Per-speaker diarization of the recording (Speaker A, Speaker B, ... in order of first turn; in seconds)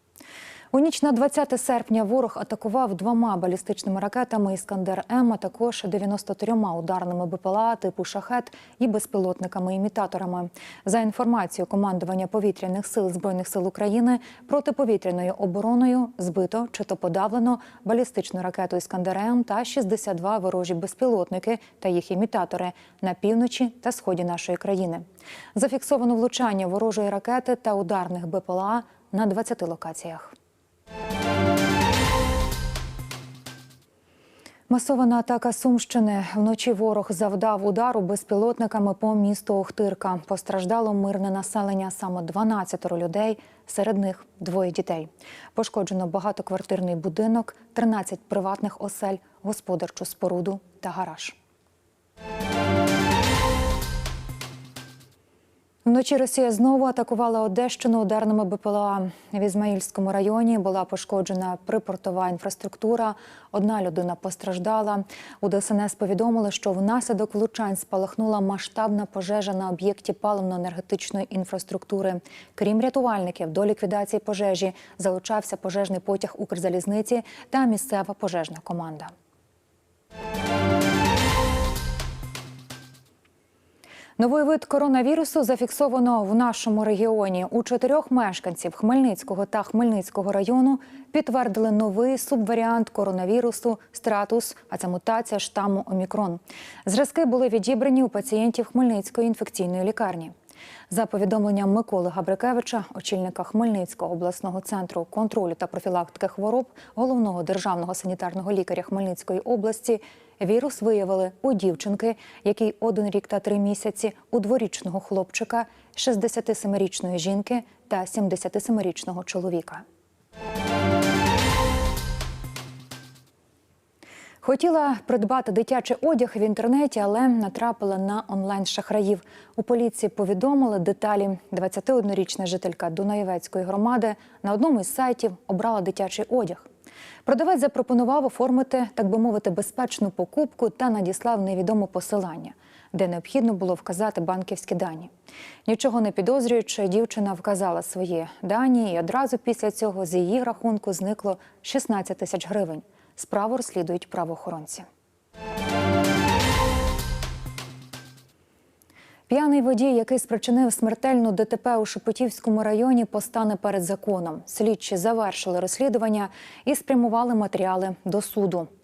Speaker A: 0.7-30.4, 34.7-51.4, 55.9-79.1, 84.2-100.3, 100.9-119.8, 124.4-136.7, 137.2-145.1, 145.7-154.9, 159.3-168.7